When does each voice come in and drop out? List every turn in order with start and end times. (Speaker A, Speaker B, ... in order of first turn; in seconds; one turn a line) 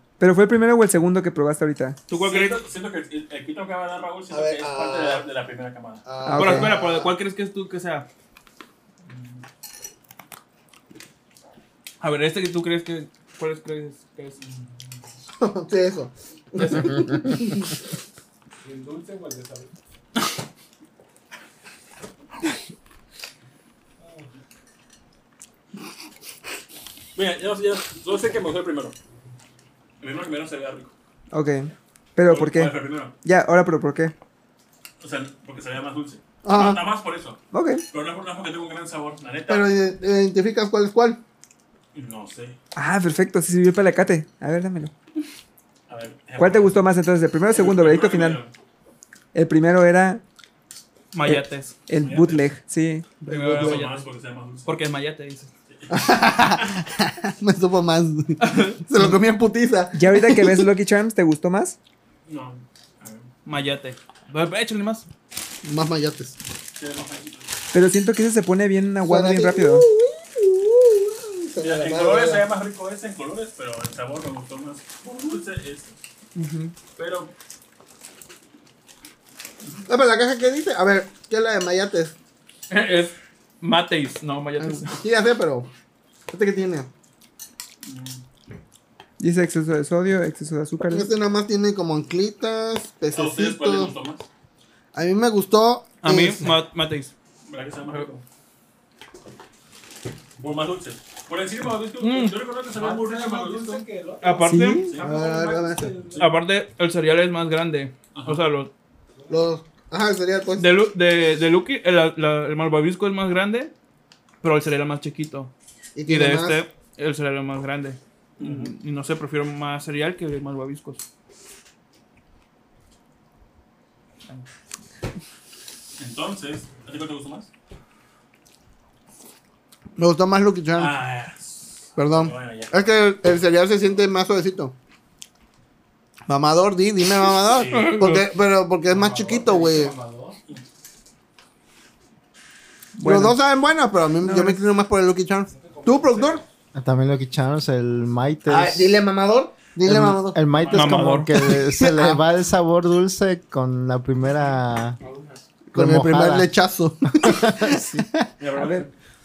Speaker A: 0.2-2.0
Speaker B: 2.1-2.6
Speaker C: 2.1-6.0
Speaker D: 4.3-5.2
Speaker D: 6.0-7.1
Speaker A: 6.2-6.7
Speaker B: 6.3-8.1
Speaker C: 9.1-9.4
Speaker B: 12.0-14.4
Speaker C: 14.4-15.0
Speaker D: 15.4-17.6
Speaker B: 16.6-16.9
Speaker E: 18.6-19.7
Speaker E: 24.0-24.3
Speaker C: 27.1-28.9
Speaker C: 30.0-30.9
Speaker A: 31.3-34.1
Speaker C: 32.2-33.1
Speaker C: 35.0-39.7
Speaker D: 36.4-36.8
Speaker A: 37.5-37.8
Speaker D: 39.5-41.2
Speaker C: 41.9-42.6
Speaker A: 42.7-44.9
Speaker C: 45.9-46.8
Speaker A: 46.4-48.4
Speaker C: 47.5-48.5
Speaker A: 49.3-50.2
Speaker B: 51.1-51.8
Speaker A: 51.2-53.2
Speaker C: 52.0-52.5
Speaker D: 53.2-53.8
Speaker B: 53.3-54.0
Speaker C: 53.3-54.8
Speaker B: 54.6-55.5
Speaker C: 55.7-56.7
Speaker D: 55.9-60.6
Speaker B: 58.4-58.8
Speaker A: 59.9-61.8
Speaker C: 62.3-63.3
Speaker B: 63.4-65.0
Speaker D: 65.6-66.4
Speaker C: 66.7-67.5
Speaker A: 67.7-69.9
Speaker D: 69.0-72.5
Speaker C: 71.6-75.9
Speaker A: 76.3-76.7
Speaker C: 77.0-77.3
Speaker D: 79.8-82.2
Speaker B: 82.7-85.0
Speaker D: 84.6-85.7
Speaker D: 86.3-86.9
Speaker C: 87.8-88.2
Speaker A: 89.2-91.1
Speaker D: 90.9-93.9
Speaker C: 93.1-94.2
Speaker D: 94.9-96.5
Speaker B: 96.0-97.1
Speaker C: 97.4-98.2
Speaker C: 100.4-103.8
Speaker B: 102.0-102.4
Speaker E: 102.7-106.2
Speaker B: 104.2-104.9
Speaker A: 104.5-104.8
Speaker D: 104.6-105.9
Speaker C: 104.9-105.3
Speaker B: 106.1-108.7
Speaker C: 108.1-108.4
Speaker E: 109.2-109.4
Speaker D: 109.3-110.7
Speaker B: 110.5-113.7
Speaker B: 114.4-115.5
Speaker D: 115.9-116.6
Speaker B: 116.0-121.0
Speaker C: 118.4-118.7
Speaker C: 126.0-127.5
Speaker D: 130.0-131.0
Speaker C: 130.8-133.0
Speaker D: 131.9-134.7
Speaker D: 136.3-139.9
Speaker C: 137.5-138.0
Speaker B: 137.8-138.2
Speaker E: 138.8-140.4
Speaker A: 143.0-143.4
Speaker D: 143.0-146.4
Speaker A: 144.2-144.7
Speaker E: 145.5-146.4
Speaker F: 146.7-149.0
Speaker D: 148.5-150.7
Speaker F: 149.8-155.0
Speaker C: 150.6-150.9
Speaker B: 150.7-151.3
Speaker D: 151.3-152.2
Speaker E: 155.0-155.4
Speaker F: 155.7-156.5
Speaker D: 155.7-158.0
Speaker F: 157.2-157.7
Speaker C: 158.4-158.9
Speaker A: 158.5-158.9